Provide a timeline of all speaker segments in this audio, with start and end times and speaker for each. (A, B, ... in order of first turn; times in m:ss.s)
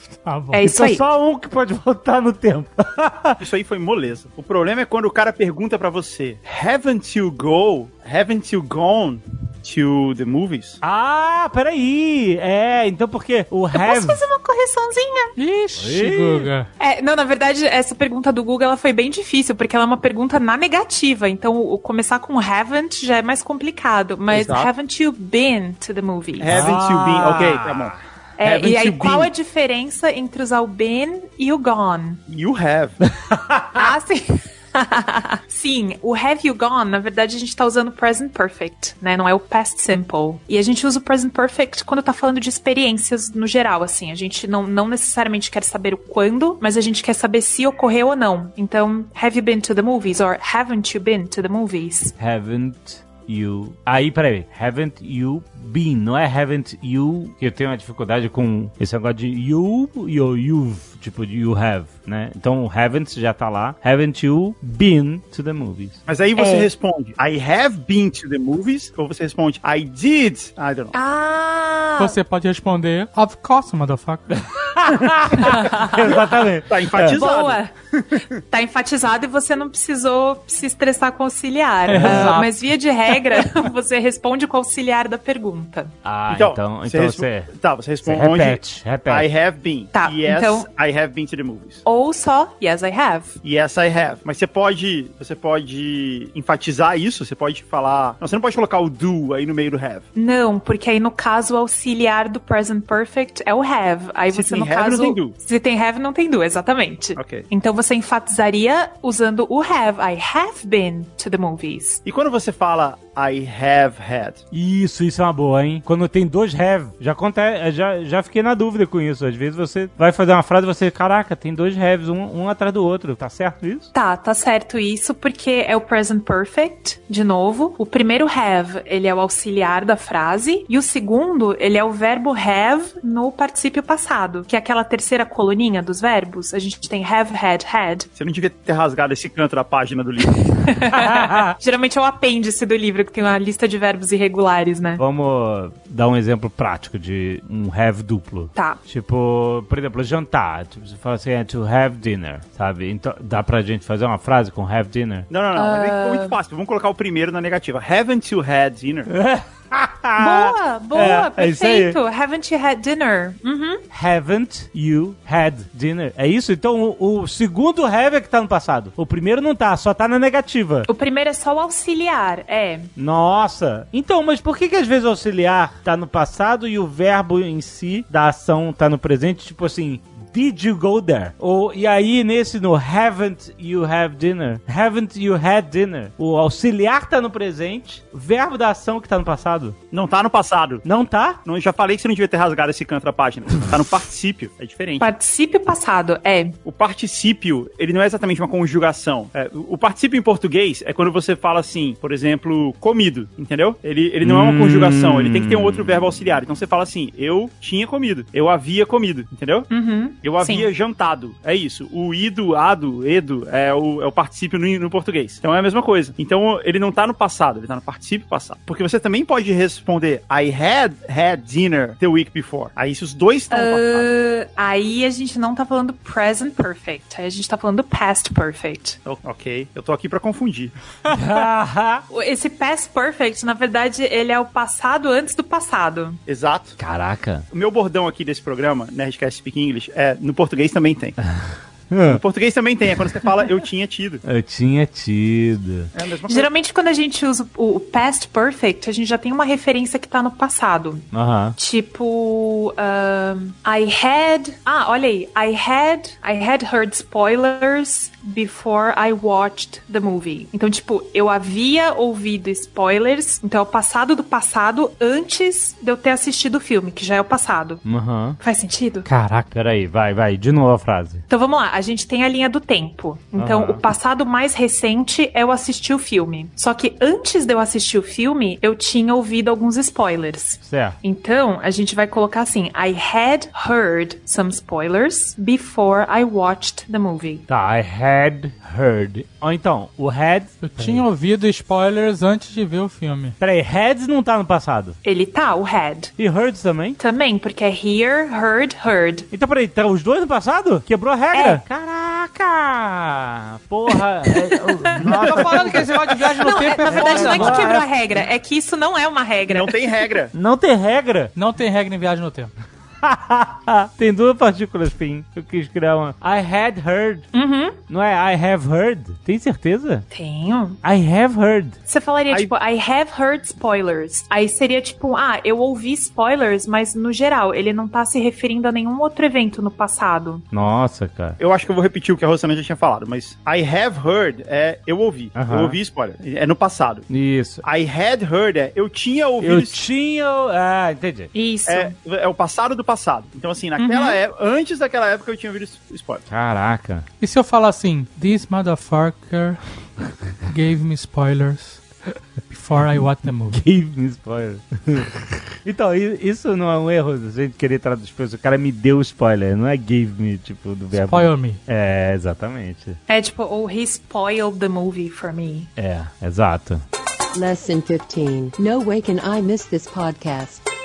0:00.2-0:00.6 A
0:00.5-0:01.0 B
0:00.6-0:03.4 C
0:03.4-0:10.8 D
0:10.8-0:14.2 C
0:13.7-0:15.3 B
0:15.4-0:16.7 A
0:15.8-0:16.5 C
0:16.8-0:26.6 B
0:24.3-0:24.7 D
0:26.4-0:29.3 D
0:26.5-0:28.0 C
0:28.4-0:32.2 B
0:32.3-0:33.0 D
0:33.2-0:33.8 C
0:33.8-0:52.1 B
0:52.2-1:06.0 C
1:06.1-1:10.9 D
1:06.4-1:06.7 B
1:10.9-1:12.2 B
1:12.0-1:14.3 A
1:14.3-1:17.2 C
1:15.5-1:16.0 B
1:16.1-1:18.3 D
1:17.1-1:17.7 B
1:18.5-1:25.9 B
1:21.9-1:22.5 A
1:22.0-1:22.4 C
1:26.0-1:27.5 C
1:26.3-1:31.8 D
1:28.0-1:29.3 C
1:29.9-1:30.7 B
1:31.9-1:33.4 B
1:33.4-1:40.1 D
1:40.2-1:52.0 B
1:44.3-1:45.4 D
1:47.2-1:47.5 D
1:52.0-1:54.4 D
1:54.5-2:03.9 C
2:03.9-2:18.1 B
2:18.2-2:20.7 D
2:20.6-2:25.0 B
2:20.9-2:21.6 C
2:25.0-2:35.3 C
2:35.3-2:39.1 D
2:35.6-2:36.4 B
2:39.1-2:42.0 C
2:40.2-2:43.8 B
2:43.9-2:50.9 C
2:50.9-2:52.9 B
2:53.0-3:09.8 C
3:09.9-3:10.8 D
3:10.8-3:11.4 C
3:11.5-3:15.1 D
3:15.0-3:16.6 B
3:16.7-3:29.7 D
3:24.2-3:26.0 C
3:29.7-3:30.7 B
3:30.2-3:44.1 D
3:43.5-3:49.0 B
3:49.1-3:50.7 D
3:51.1-3:52.0 C
3:52.1-3:56.2 B
3:56.3-3:56.8 D
3:56.8-3:57.4 C
3:57.5-4:01.2 D
4:01.3-4:02.2 C
4:02.1-4:04.2 D
4:04.2-4:05.9 C
4:05.9-4:06.5 D
4:06.3-4:27.8 B
4:11.1-4:11.6 C
4:27.8-4:28.4 C
4:28.4-4:29.1 B
4:29.1-4:29.5 A
4:29.5-4:31.2 C
4:31.3-4:47.4 B
4:33.4-4:33.8 C
4:40.6-4:41.0 C
4:47.5-4:51.0 C
4:50.6-4:53.4 A
4:53.4-4:55.0 C
4:55.0-4:56.1 B
4:56.2-4:57.0 C
4:57.0-4:59.3 B
4:59.3-5:07.8 C
5:01.3-5:01.6 B
5:04.3-5:04.9 B
5:05.0-5:07.8 A
5:05.2-5:05.8 D
5:06.4-5:09.9 B
5:09.5-5:10.3 D
5:10.3-5:11.3 C
5:11.4-5:12.5 A
5:13.0-5:17.3 C
5:17.3-5:17.8 B
5:17.9-5:20.1 C
5:20.1-5:20.8 B
5:20.8-5:21.8 C
5:21.9-5:30.4 B
5:30.5-5:31.4 C
5:31.4-5:37.1 D
5:35.4-5:35.8 C
5:37.1-5:37.6 C
5:37.6-5:39.8 D
5:39.4-5:41.3 C
5:41.3-5:42.0 B
5:41.7-5:46.2 D
5:43.8-5:44.2 B
5:46.3-5:47.1 C
5:47.2-5:51.9 A
5:52.5-5:53.6 A
5:53.5-6:03.0 C
6:00.9-6:01.6 A
6:03.1-6:05.7 B
6:05.8-6:06.8 C
6:07.3-6:10.6 E